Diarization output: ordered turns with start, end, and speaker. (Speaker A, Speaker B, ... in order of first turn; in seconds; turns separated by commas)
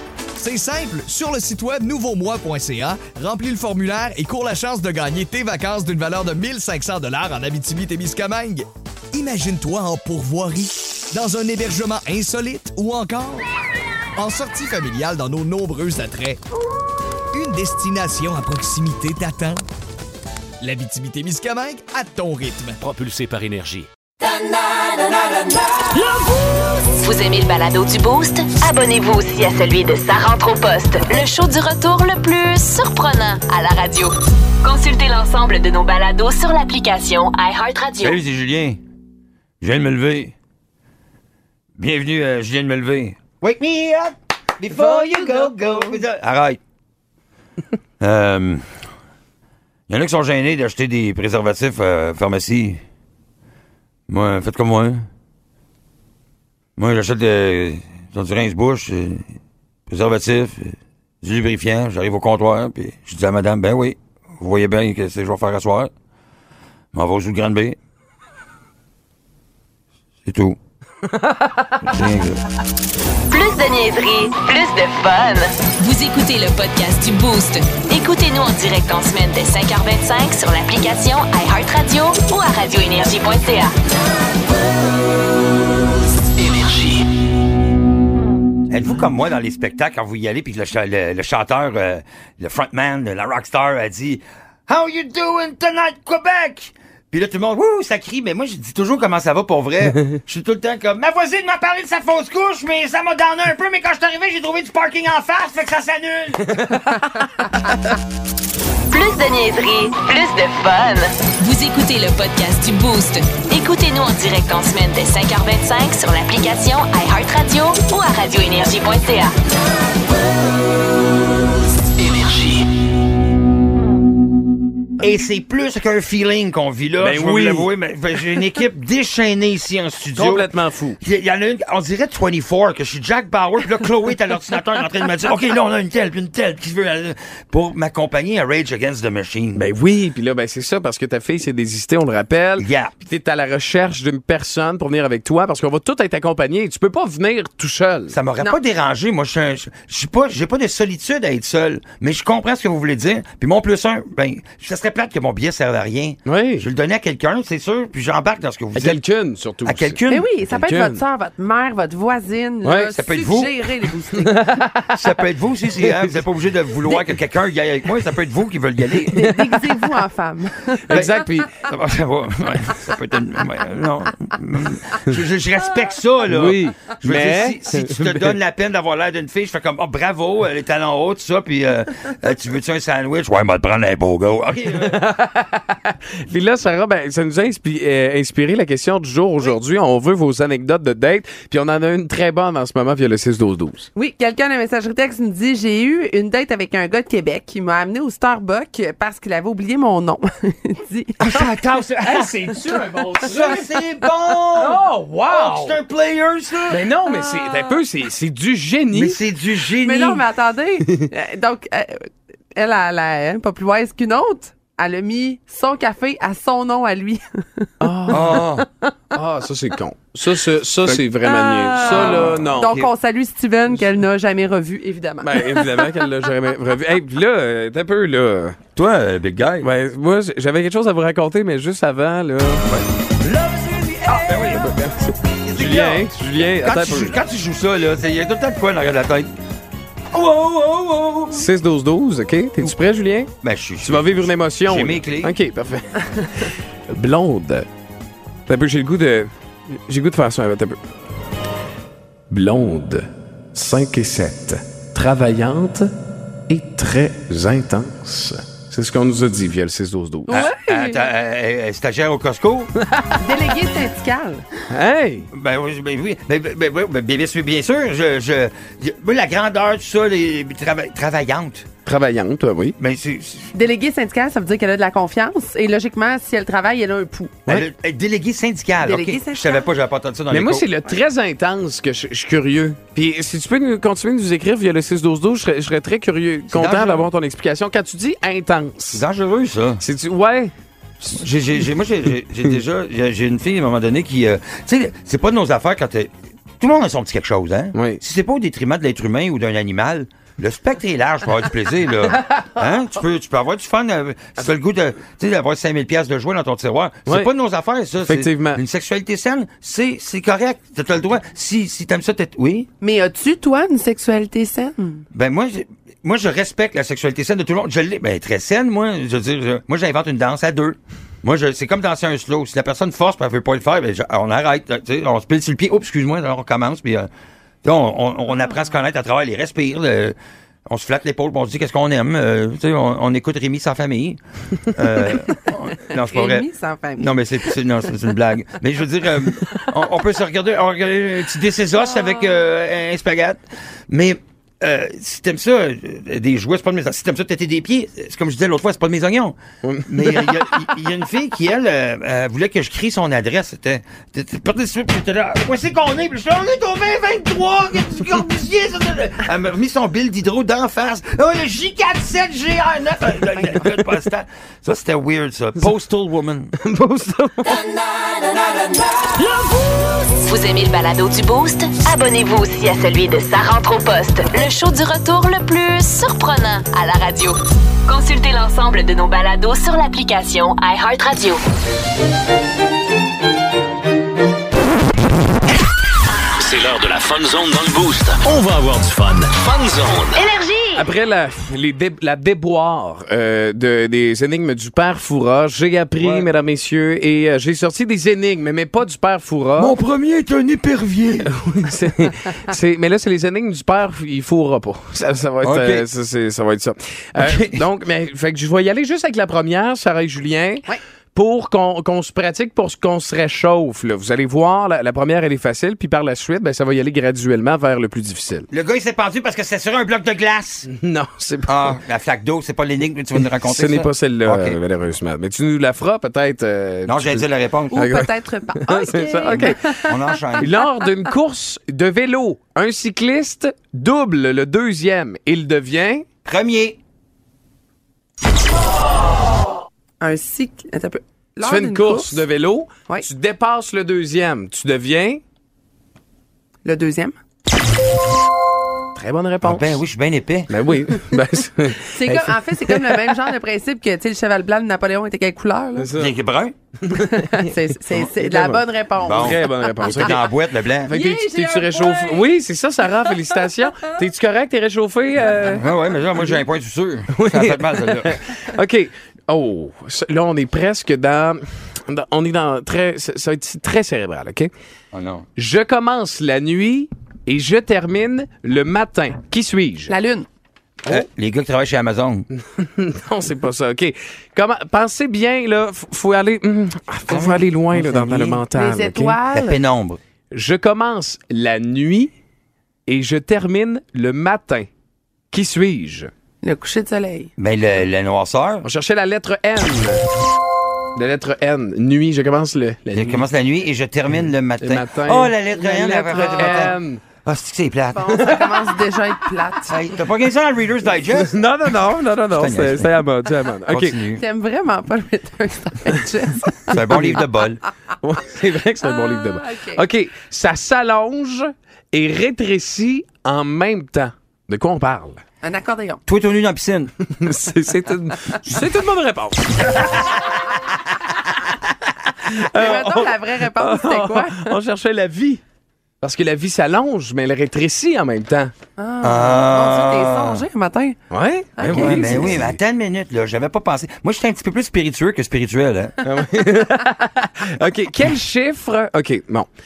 Speaker A: 0.3-13.5, Speaker A: 14.2-16.4, Speaker A: 17.3-19.6, Speaker A: 20.6-22.8, Speaker B: 22.9-23.9, Speaker C: 27.0-38.2, Speaker D: 38.0-38.8, Speaker D: 39.6-40.3, Speaker D: 41.8-46.6, Speaker E: 44.7-45.9, Speaker F: 45.1-45.5, Speaker D: 48.0-48.6, Speaker D: 49.9-52.8, Speaker D: 54.1-55.0, Speaker D: 56.8-59.3, Speaker D: 59.9-65.9, Speaker D: 66.9-67.8, Speaker D: 70.2-70.6, Speaker E: 71.0-72.0, Speaker D: 71.8-72.4, Speaker C: 73.3-83.7, Speaker C: 86.4-87.0, Speaker D: 88.7-106.6, Speaker E: 106.5-107.8, Speaker C: 108.9-119.3, Speaker C: 122.0-122.6, Speaker D: 125.0-139.7, Speaker E: 127.0-127.7, Speaker E: 130.1-131.0, Speaker E: 139.5-148.2, Speaker D: 142.6-142.9, Speaker D: 148.1-159.0, Speaker E: 156.2-156.7, Speaker E: 158.7-161.0, Speaker D: 159.7-160.2, Speaker F: 160.1-164.5, Speaker E: 162.6-162.9, Speaker D: 162.9-163.5, Speaker E: 163.6-166.2, Speaker D: 165.0-169.2, Speaker F: 169.1-171.5, Speaker E: 169.1-170.0, Speaker E: 170.9-171.5, Speaker D: 170.9-185.0, Speaker E: 176.3-178.3, Speaker E: 184.8-193.9, Speaker F: 193.9-201.3, Speaker D: 201.2-202.6, Speaker E: 201.2-203.8, Speaker D: 203.2-206.8, Speaker E: 204.5-205.8, Speaker E: 206.7-209.2, Speaker D: 208.9-210.2, Speaker F: 209.7-218.9, Speaker E: 210.8-211.1, Speaker E: 217.8-218.5, Speaker D: 218.1-218.7, Speaker E: 219.1-222.8, Speaker F: 221.2-225.9, Speaker D: 222.0-222.9, Speaker E: 225.2-228.6, Speaker D: 228.7-229.7, Speaker E: 229.6-232.6, Speaker D: 232.7-234.7, Speaker E: 233.8-237.2, Speaker D: 235.4-239.3, Speaker D: 240.1-241.4, Speaker E: 241.3-243.3, Speaker D: 243.4-245.3, Speaker E: 243.8-247.7, Speaker E: 248.5-250.8, Speaker E: 252.3-255.9, Speaker E: 256.5-260.6, Speaker F: 260.3-261.1, Speaker D: 260.3-262.7, Speaker E: 262.8-263.5, Speaker F: 263.2-264.4, Speaker E: 264.7-265.3, Speaker D: 265.3-271.6, Speaker E: 271.8-272.8, Speaker D: 272.8-273.5, Speaker F: 273.5-277.5, Speaker D: 277.5-280.7, Speaker F: 278.8-279.7, Speaker E: 280.3-289.1, Speaker D: 286.5-287.0, Speaker D: 288.9-289.8, Speaker E: 289.8-291.2, Speaker D: 291.1-312.7, Speaker E: 297.7-298.0, Speaker E: 307.1-307.3, Speaker E: 308.0-308.6, Speaker F: 312.8-315.1, Speaker D: 315.1-327.1, Speaker D: 327.6-330.1, Speaker D: 330.7-334.2, Speaker D: 334.7-349.4, Speaker F: 335.1-335.4, Speaker F: 336.0-337.5, Speaker F: 341.9-342.3, Speaker E: 349.6-350.4, Speaker D: 349.9-365.8, Speaker E: 363.4-363.8, Speaker E: 365.6-367.6, Speaker C: 370.2-381.4, Speaker B: 386.4-390.2, Speaker C: 390.1-390.8, Speaker E: 390.7-399.8, Speaker D: 396.0-396.3, Speaker D: 399.6-401.3, Speaker E: 401.2-418.5, Speaker D: 405.4-405.8, Speaker D: 407.2-407.5, Speaker D: 418.5-420.7, Speaker E: 420.6-421.7, Speaker D: 421.4-424.6, Speaker E: 423.4-429.7, Speaker D: 426.9-427.8, Speaker F: 427.7-430.5, Speaker D: 429.8-430.5, Speaker E: 430.4-436.0, Speaker D: 436.2-436.8, Speaker F: 440.0-442.2, Speaker E: 441.4-445.2, Speaker F: 446.6-447.1, Speaker E: 448.9-449.8, Speaker D: 449.4-450.5, Speaker E: 450.5-453.1, Speaker F: 451.9-455.9, Speaker E: 455.8-456.1, Speaker D: 455.9-456.5, Speaker E: 456.8-457.4, Speaker F: 457.0-460.2, Speaker E: 457.9-460.2, Speaker D: 459.0-459.4, Speaker D: 459.9-460.9, Speaker E: 460.8-466.2, Speaker F: 460.9-462.3, Speaker D: 465.6-468.2, Speaker E: 467.1-474.5, Speaker D: 474.9-475.2, Speaker E: 475.4-479.9, Speaker F: 479.9-480.3, Speaker D: 480.9-482.2, Speaker E: 482.3-489.2, Speaker F: 487.1-487.4, Speaker D: 487.7-488.3, Speaker F: 488.3-489.6, Speaker D: 489.3-490.0, Speaker E: 490.3-492.1, Speaker E: 492.9-494.7, Speaker E: 495.3-496.1, Speaker F: 496.4-497.3, Speaker D: 497.4-498.6, Speaker E: 498.6-500.0, Speaker E: 500.9-503.2, Speaker D: 502.9-508.1, Speaker E: 504.6-507.0, Speaker F: 506.1-506.7, Speaker F: 507.9-509.8, Speaker E: 508.1-508.7, Speaker D: 509.7-511.3, Speaker E: 511.1-514.0, Speaker D: 512.3-512.9, Speaker D: 513.7-514.2, Speaker F: 514.1-517.1, Speaker E: 516.7-517.2, Speaker D: 516.7-517.6, Speaker E: 518.0-525.2, Speaker F: 519.0-519.8, Speaker F: 525.4-526.0, Speaker D: 526.1-526.9, Speaker E: 527.1-530.1, Speaker E: 532.2-535.4, Speaker F: 532.5-534.5, Speaker E: 536.0-538.5, Speaker F: 538.8-541.0, Speaker D: 539.0-540.4, Speaker E: 541.1-542.6, Speaker F: 541.6-542.5, Speaker D: 541.6-545.9, Speaker E: 546.0-549.5